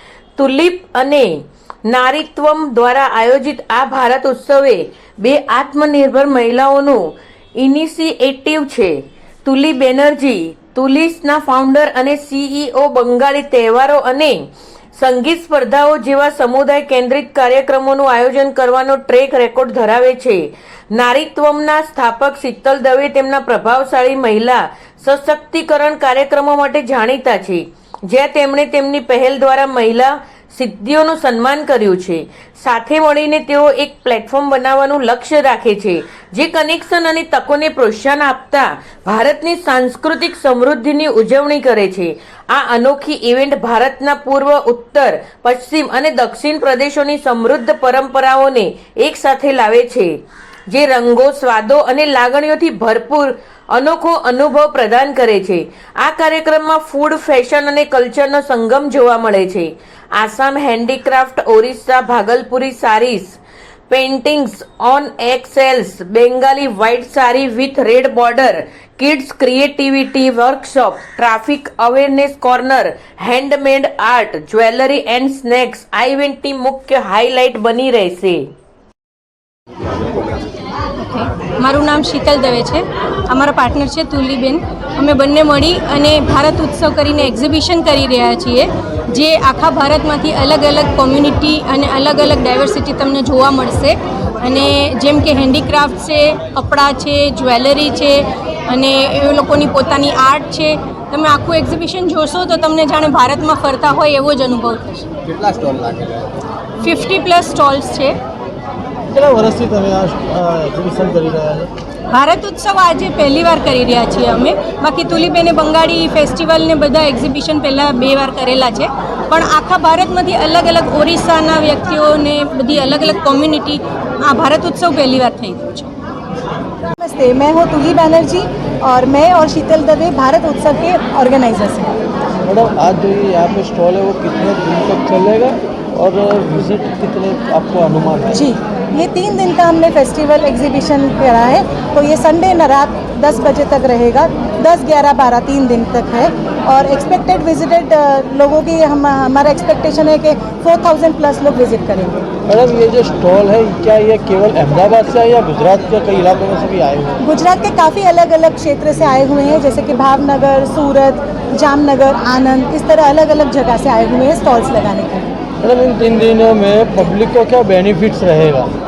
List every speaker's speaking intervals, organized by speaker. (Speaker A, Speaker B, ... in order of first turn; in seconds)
Speaker A: 0.4-7.1, 7.6-50.2, 50.7-63.4, 63.9-78.5
Speaker B: 81.0-105.1, 106.8-108.2, 112.1-125.9
Speaker C: 109.1-111.7, 132.4-138.4, 152.5-157.2, 165.6-168.7
Speaker D: 127.0-132.0, 138.3-152.2, 157.2-165.3